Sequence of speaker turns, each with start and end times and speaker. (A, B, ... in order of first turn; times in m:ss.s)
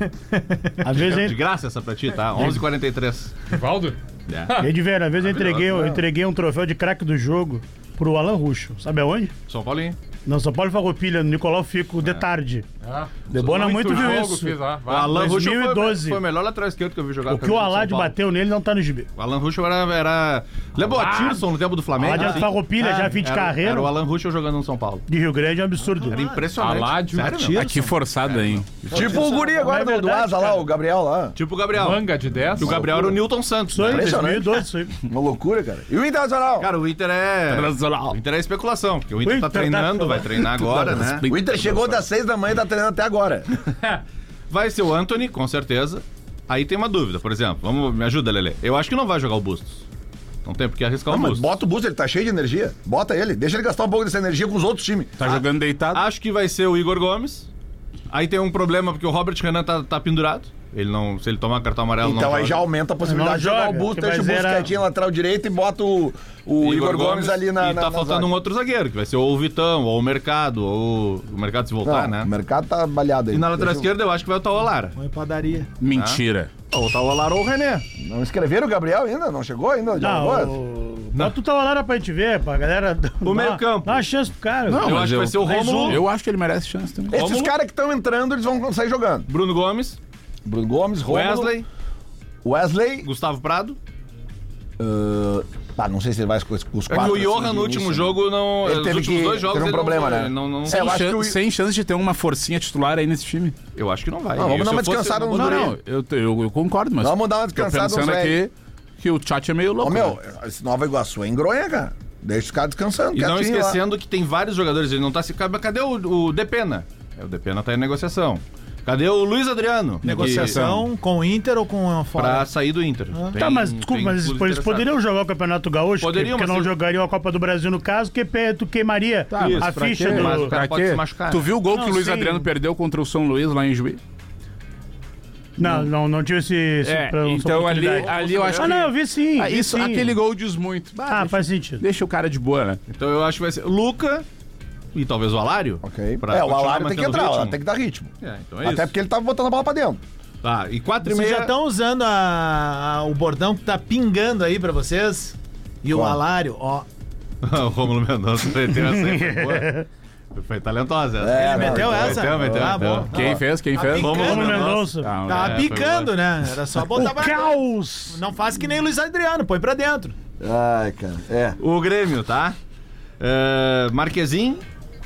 0:00.3-0:00.9 A
0:00.8-0:01.4 B
0:01.0-0:03.4 C
0:03.5-0:04.7 D
0:04.3-0:04.6 C
0:04.6-0:09.3 B
0:05.2-0:06.0 C
0:09.5-0:10.0 C
0:10.3-0:12.7 B
0:12.8-0:15.3 D
0:13.3-0:16.2 B
0:13.3-0:14.3 C
0:14.9-0:18.2 C
0:17.3-0:19.1 B
0:19.2-0:25.0 C
0:20.9-0:21.4 D
0:22.0-0:23.9 B
0:22.1-0:23.2 A
0:25.1-0:26.2 B
0:25.9-0:26.5 A
0:26.1-0:27.7 C
0:26.6-0:27.8 D
0:27.4-0:28.0 A
0:27.5-0:28.9 E
0:28.2-0:29.3 C
0:28.9-0:31.4 F
0:29.3-0:30.6 B
0:31.4-0:34.2 C
0:31.7-0:32.8 D
0:32.6-0:33.2 F
0:33.7-0:34.9 B
0:33.8-0:36.7 F
0:36.6-0:41.3 C
0:37.5-0:38.2 E
0:39.2-0:40.7 B
0:40.7-0:41.8 E
0:41.3-0:43.5 F
0:44.5-0:49.8 C
0:50.4-0:51.5 C
0:51.1-0:55.3 F
0:55.2-0:56.0 E
0:55.9-0:57.5 C
0:58.1-1:02.6 C
1:02.0-1:08.3 F
1:03.0-1:04.7 B
1:06.6-1:12.3 C
1:11.8-1:13.9 F
1:13.3-1:15.0 C
1:15.0-1:15.7 A
1:15.8-1:16.5 E
1:15.9-1:17.8 C
1:18.0-1:20.6 F
1:20.0-1:26.0 B
1:23.2-1:24.1 C
1:24.7-1:27.2 E
1:24.8-1:26.0 C
1:27.1-1:29.3 F
1:27.1-1:27.5 C
1:29.3-1:30.0 C
1:30.4-1:31.5 F
1:31.0-1:31.7 C
1:32.4-1:33.1 F
1:33.0-1:33.8 C
1:34.8-1:41.4 F
1:36.9-1:40.9 C
1:40.7-1:43.6 E
1:43.8-1:45.7 C
1:44.4-1:45.8 F
1:45.3-1:50.2 E
1:47.0-1:48.4 F
1:49.8-1:53.8 F
1:53.1-2:00.7 C
2:00.0-2:00.9 E
2:00.0-2:02.5 A
2:02.2-2:04.9 C
2:03.4-2:10.5 B
2:06.0-2:06.7 C
2:09.3-2:14.0 E
2:09.4-2:11.5 C
2:11.7-2:12.5 B
2:15.6-2:20.2 B
2:15.6-2:15.9 E
2:16.8-2:22.8 E
2:18.1-2:18.7 C
2:21.1-2:21.8 B
2:22.9-2:24.2 C
2:24.9-2:27.6 C
2:25.8-2:28.1 F
2:28.2-2:28.9 C
2:28.6-2:30.0 F
2:30.4-2:31.5 C
2:31.0-2:36.9 A
2:35.9-2:36.2 F
2:37.4-2:39.8 C
2:38.8-2:39.9 B
2:40.3-2:43.2 C
2:41.2-2:43.4 F
2:41.4-2:44.7 A
2:43.1-2:45.7 E
2:43.9-2:46.2 C
2:44.2-2:45.1 B
2:45.2-2:50.2 A
2:46.9-2:48.2 B
2:50.4-2:51.6 F
2:51.6-2:52.6 C
2:53.2-2:54.6 C